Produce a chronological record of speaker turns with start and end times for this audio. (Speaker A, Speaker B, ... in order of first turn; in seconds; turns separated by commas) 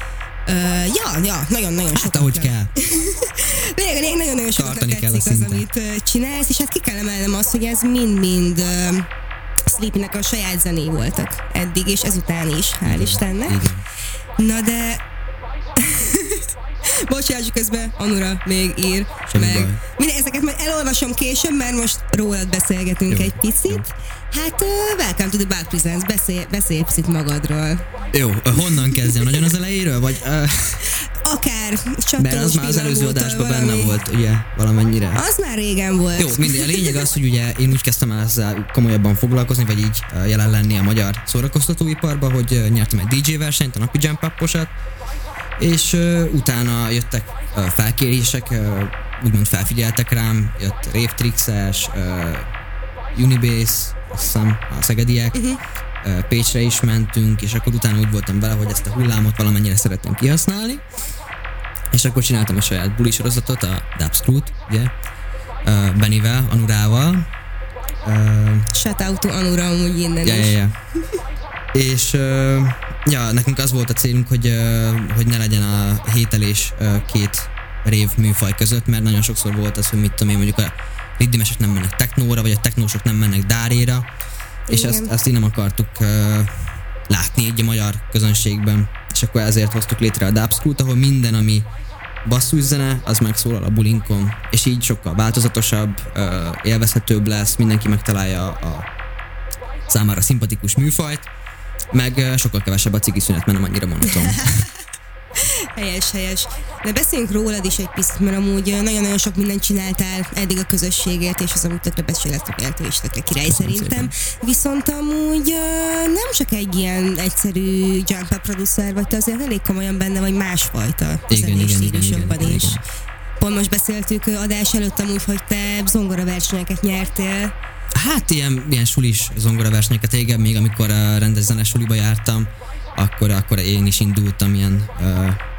Speaker A: 0.5-9.1, Speaker B: 1.9-2.7, Speaker B: 4.6-5.7, Speaker A: 9.7-13.6, Speaker B: 12.9-13.8, Speaker A: 14.4-15.0, Speaker A: 15.8-16.4, Speaker A: 17.1-27.8, Speaker B: 19.3-19.8, Speaker B: 23.1-23.9, Speaker B: 28.1-30.8, Speaker A: 28.9-29.2, Speaker A: 31.2-34.0, Speaker B: 32.2-35.2, Speaker A: 35.1-37.1, Speaker B: 36.2-44.7, Speaker B: 45.6-52.5, Speaker B: 53.1-55.4, Speaker A: 55.3-55.6, Speaker B: 56.0-60.8, Speaker B: 61.9-64.9, Speaker B: 65.6-67.3, Speaker B: 68.0-68.7, Speaker A: 68.7-70.5, Speaker B: 70.2-70.7, Speaker B: 71.7-84.1, Speaker B: 84.7-86.5, Speaker A: 84.7-85.1, Speaker B: 87.1-91.7, Speaker B: 92.2-98.9, Speaker B: 99.9-101.3, Speaker B: 101.9-104.4, Speaker A: 104.1-104.7, Speaker A: 105.8-122.8, Speaker B: 113.5-114.1, Speaker B: 121.3-122.8, Speaker A: 123.4-127.5, Speaker B: 127.9-135.4